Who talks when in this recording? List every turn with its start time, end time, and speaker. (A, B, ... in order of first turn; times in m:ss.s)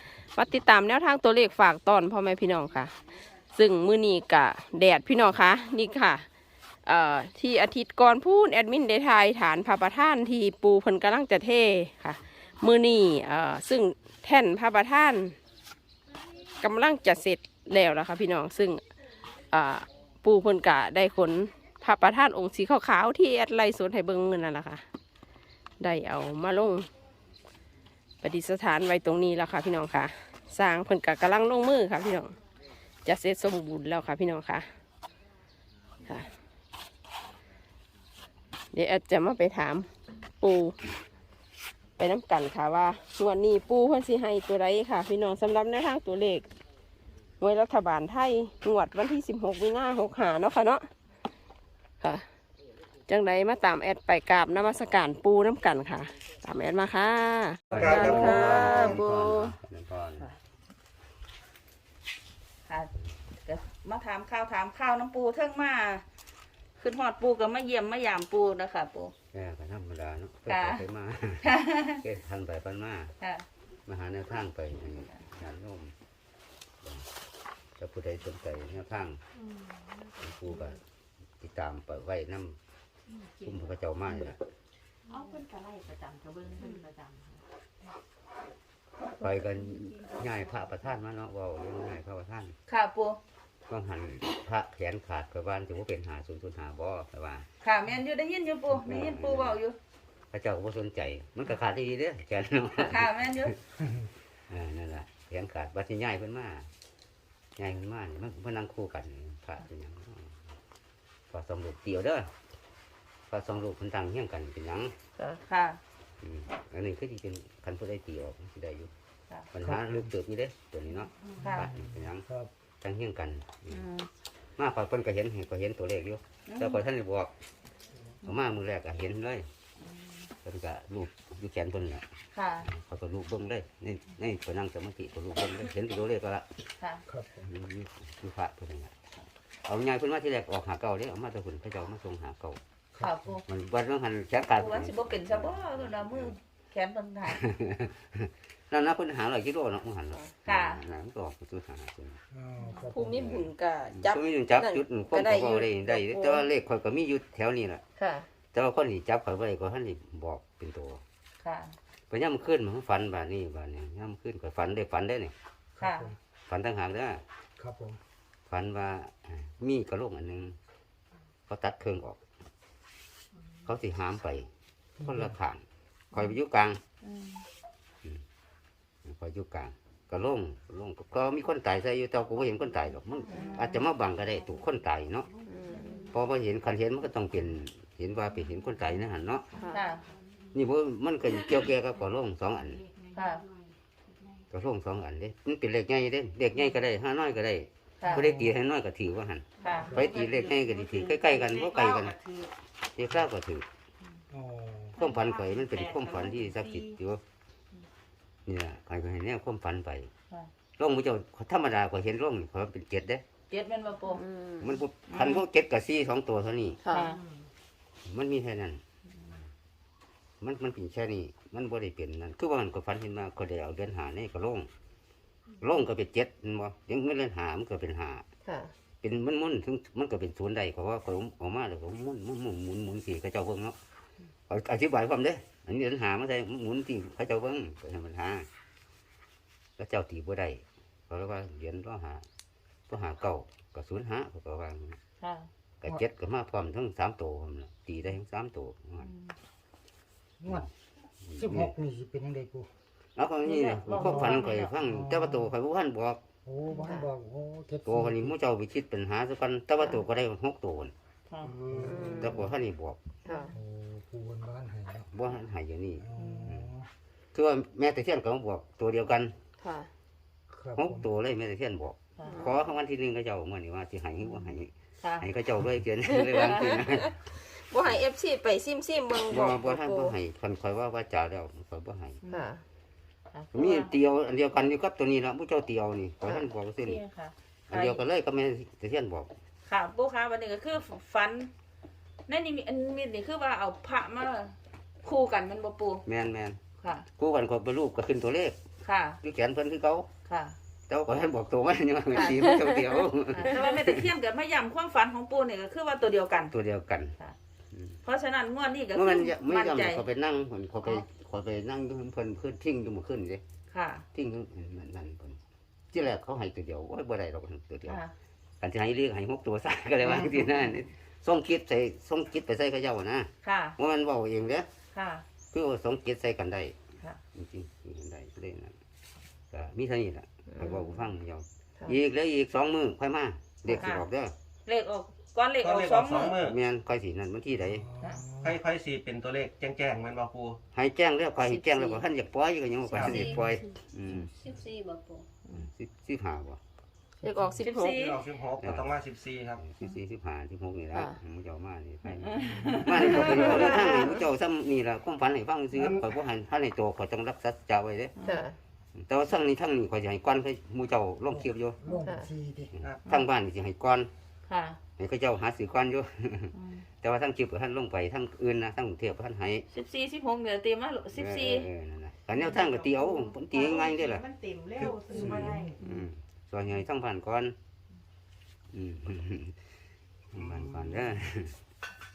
0:00.3-0:02.9 A
0:03.5-0:06.2 A
0:06.8-0:15.4 A
0:16.6-0:18.8 A
0:19.5-0:24.8 A
0:25.8-0:26.9 A
0:28.2-0:32.4 A
0:33.0-0:34.7 A
0:36.0-0:36.3 A
0:38.7-0:39.9 A
0:40.4-0:40.8 A
0:42.0-0:46.5 A
0:47.4-0:50.9 A
0:52.0-0:52.3 A
0:53.1-0:59.5 A
0:57.7-1:00.3 B
0:57.7-0:58.8 C
1:03.4-1:06.0 D
1:06.8-1:09.1 D
1:09.3-1:11.5 B
1:10.5-1:10.9 D
1:11.4-1:12.0 D
1:12.0-1:13.1 B
1:13.2-1:13.4 D
1:13.9-1:15.9 B
1:17.8-1:19.2 B
1:20.2-1:20.8 B
1:21.4-1:22.6 B
1:23.4-1:24.4 B
1:25.1-1:27.4 E
1:29.2-1:32.6 B
1:32.7-1:33.2 D
1:33.7-1:37.5 B
1:37.6-1:39.8 D
1:38.7-1:39.6 B
1:40.3-1:43.5 B
1:42.8-1:43.6 D
1:44.5-1:46.7 B
1:47.6-1:50.3 B
1:51.3-1:52.3 B
1:53.3-1:54.9 B
1:55.2-1:55.4 A
1:55.5-1:55.8 D
1:56.2-1:58.9 B
1:59.5-2:02.2 B
1:59.6-2:00.1 F
2:01.4-2:01.7 D
2:01.5-2:02.5 F
2:02.8-2:03.9 B
2:03.7-2:04.1 D
2:04.6-2:07.3 B
2:06.5-2:06.8 D
2:08.2-2:09.5 B
2:10.4-2:12.1 B
2:12.3-2:12.7 D
2:12.7-2:16.5 B
2:17.1-2:17.5 F
2:17.4-2:18.9 B
2:19.6-2:22.6 B
2:22.9-2:23.4 F
2:23.0-2:23.4 D
2:23.5-2:26.3 B
2:24.5-2:27.4 D
2:27.3-2:32.2 B
2:30.4-2:30.8 D
2:32.3-2:33.4 F
2:32.9-2:36.4 A
2:34.0-2:37.8 B
2:38.0-2:38.3 A
2:38.5-2:41.0 B
2:41.4-2:41.7 D
2:42.1-2:45.3 B
2:45.8-2:46.2 F
2:45.8-2:46.1 D
2:46.5-2:47.2 B
2:47.6-2:48.0 F
2:48.5-2:50.5 B
2:51.5-2:52.2 B
2:53.7-2:54.5 B
2:55.0-2:55.3 F
2:55.0-2:55.6 B
2:56.1-2:56.8 B
2:57.0-2:57.4 D
2:59.0-3:05.3 B
3:03.3-3:03.7 D
3:05.4-3:06.1 A
3:06.1-3:09.5 B
3:09.5-3:09.8 A
3:09.7-3:10.1 D
3:10.5-3:12.8 B
3:13.0-3:13.7 E
3:13.1-3:13.4 D
3:14.5-3:22.2 B
3:18.0-3:18.3 D
3:18.1-3:18.5 F
3:19.6-3:20.0 D
3:19.8-3:22.5 E
3:23.0-3:23.6 B
3:24.3-3:25.0 F
3:25.0-3:27.2 B
3:25.0-3:26.9 E
3:28.4-3:30.1 B
3:30.8-3:33.2 B
3:33.5-3:34.2 D
3:34.1-3:34.7 A
3:34.6-3:36.8 B
3:35.1-3:35.4 D
3:36.8-3:37.1 A
3:36.9-3:37.2 D
3:38.0-3:38.8 B
3:40.4-3:44.7 B
3:45.6-3:48.2 B
3:48.4-3:48.7 A
3:49.0-3:53.8 B
3:54.5-3:58.5 B
3:59.8-4:02.2 B
4:02.9-4:05.0 B
4:05.2-4:05.5 D
4:05.8-4:09.1 B
4:09.0-4:09.3 D
4:10.4-4:10.6 F
4:11.2-4:11.7 B
4:11.4-4:12.7 F
4:13.2-4:16.2 B
4:13.4-4:14.7 D
4:13.9-4:15.5 F
4:16.4-4:18.3 F
4:16.8-4:17.1 A
4:17.8-4:20.9 B
4:21.3-4:21.6 D
4:21.4-4:22.2 C
4:21.7-4:22.4 F
4:21.8-4:22.4 A
4:22.0-4:23.0 B
4:23.2-4:23.5 A
4:23.5-4:25.1 F
4:25.1-4:26.7 B
4:26.0-4:26.9 F
4:26.2-4:26.5 D
4:27.3-4:29.3 B
4:29.6-4:29.9 A
4:30.5-4:31.1 F
4:30.8-4:37.2 B
4:32.2-4:32.5 A
4:35.0-4:35.2 D
4:36.1-4:36.7 A
4:37.3-4:40.1 A
4:39.3-4:42.2 B
4:42.3-4:42.6 A
4:43.3-4:43.9 D
4:43.5-4:47.0 B
4:46.8-4:48.0 D
4:47.7-4:49.3 B
4:49.6-4:51.5 D
4:52.3-4:56.0 D
4:56.1-4:56.6 B
4:56.8-4:57.1 D
4:57.1-4:58.6 B
4:58.8-4:59.2 D
4:59.2-5:00.1 B
5:00.2-5:00.6 D
5:00.9-5:04.1 B
5:03.3-5:06.5 D
5:06.5-5:07.1 B
5:07.7-5:08.0 B
5:08.0-5:10.0 D
5:08.9-5:13.4 B
5:13.7-5:14.0 D
5:14.1-5:15.4 B
5:15.9-5:18.0 B
5:17.9-5:18.1 D
5:18.6-5:24.7 B
5:23.4-5:23.8 D
5:24.9-5:25.2 D
5:25.5-5:26.8 B
5:27.3-5:28.7 B
5:29.5-5:34.3 B
5:33.7-5:34.1 D
5:34.6-5:36.4 D
5:35.6-5:36.6 C
5:36.4-5:37.9 B
5:37.8-5:38.6 F
5:38.4-5:40.6 C
5:40.7-5:44.3 B
5:41.4-5:42.0 A
5:42.9-5:43.6 A
5:42.9-5:43.3 C
5:44.2-5:45.2 A
5:45.5-5:46.6 B
5:47.2-5:48.0 A
5:47.6-5:48.2 D
5:47.9-5:49.6 C
5:48.6-5:48.9 B
5:49.6-5:58.1 B
5:52.2-5:54.1 D
5:55.7-5:56.1 C
5:58.2-5:58.6 A
5:58.9-6:01.8 B
6:01.3-6:02.7 F
6:02.0-6:02.3 A
6:02.8-6:04.1 B
6:04.5-6:04.8 D
6:05.0-6:09.6 B
6:06.5-6:06.8 D
6:09.7-6:11.7 D
6:11.1-6:14.3 B
6:12.4-6:12.7 D
6:13.1-6:15.7 E
6:14.8-6:15.6 C
6:15.2-6:15.6 F
6:15.8-6:17.6 B
6:18.7-6:19.5 B
6:20.3-6:21.6 B
6:20.3-6:21.2 C